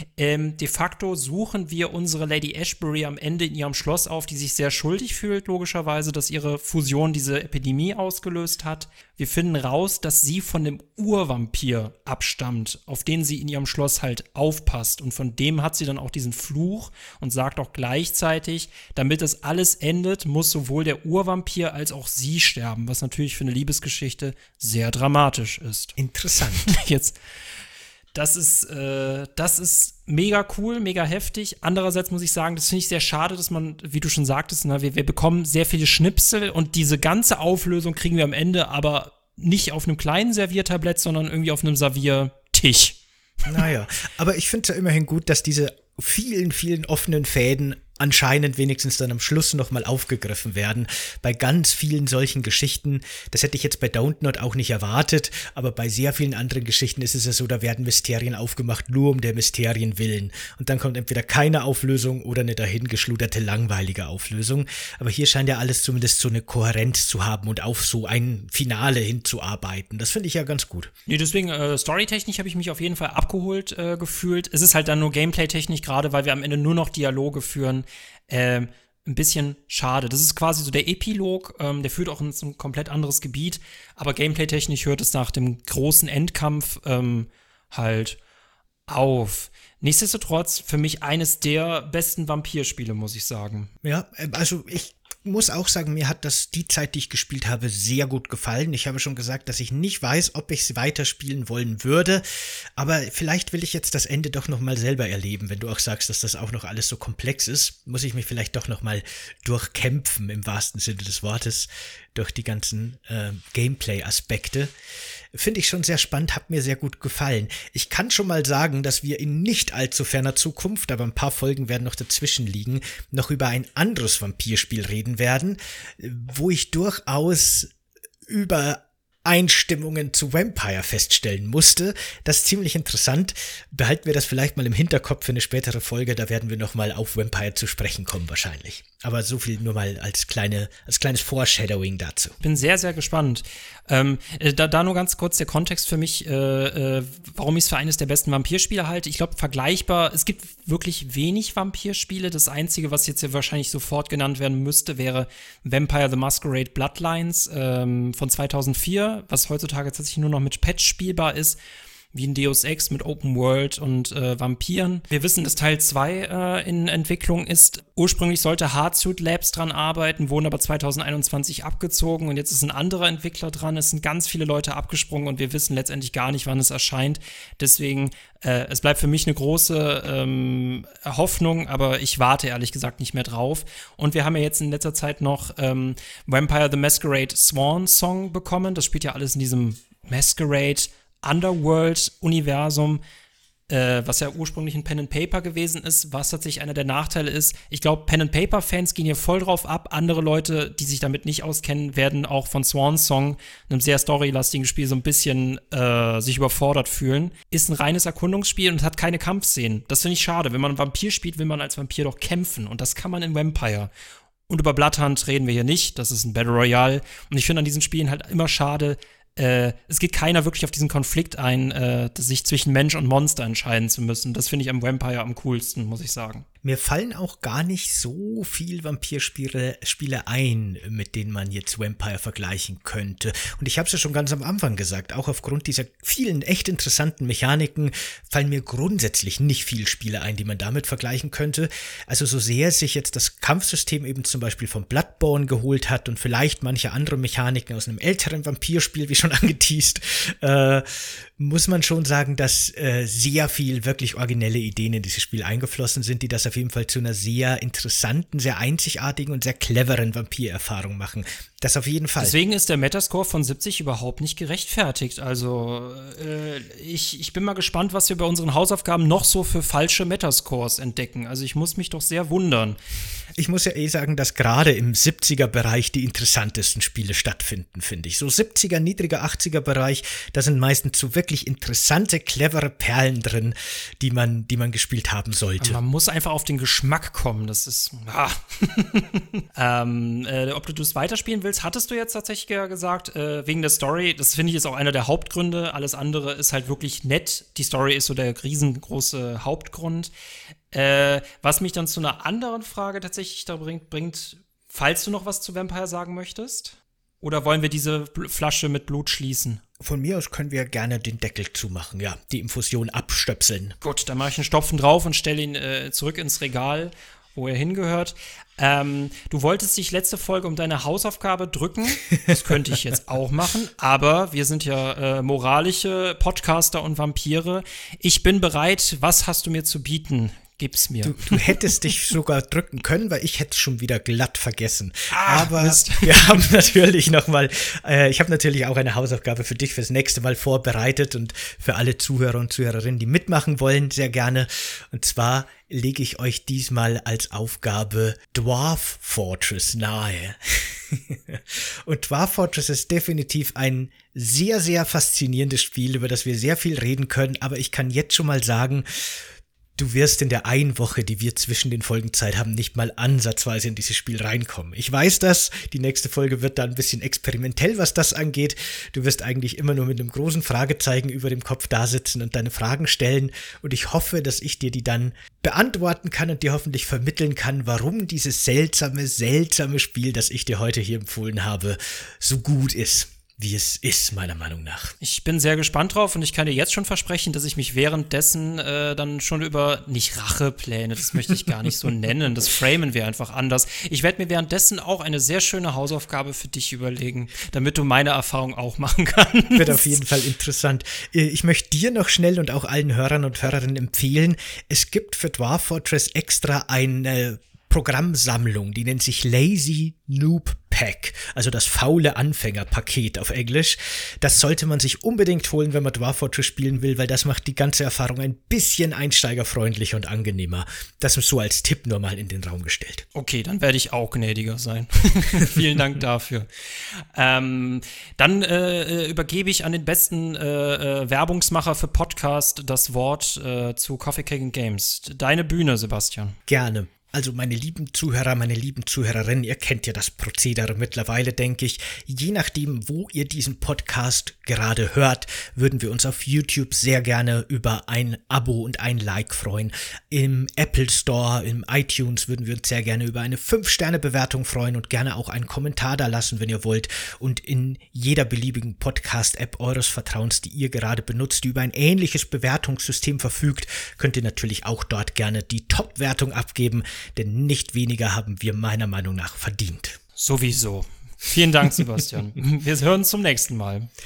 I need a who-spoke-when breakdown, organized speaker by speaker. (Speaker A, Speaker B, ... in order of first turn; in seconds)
Speaker A: 0.2-25.9, 26.5-27.2, 28.1-43.0, 71.1-88.2, 88.9-93.7, 142.4-161.6, 162.1-193.0, 193.7-213.9, 214.5-226.4, 262.2-272.8, 285.6-300.1, 300.7-309.6, 313.8-331.5, 335.1-336.4, 385.0-400.0, 423.1-436.4, 470.1-473.9
Speaker B: 26.0-26.7, 43.5-70.9, 93.8-102.2, 102.8-114.7, 115.3-127.7, 128.3-142.3, 226.6-262.4, 273.4-285.8, 309.8-313.8, 331.0-359.2, 359.8-384.9, 399.5-423.0, 436.5-470.0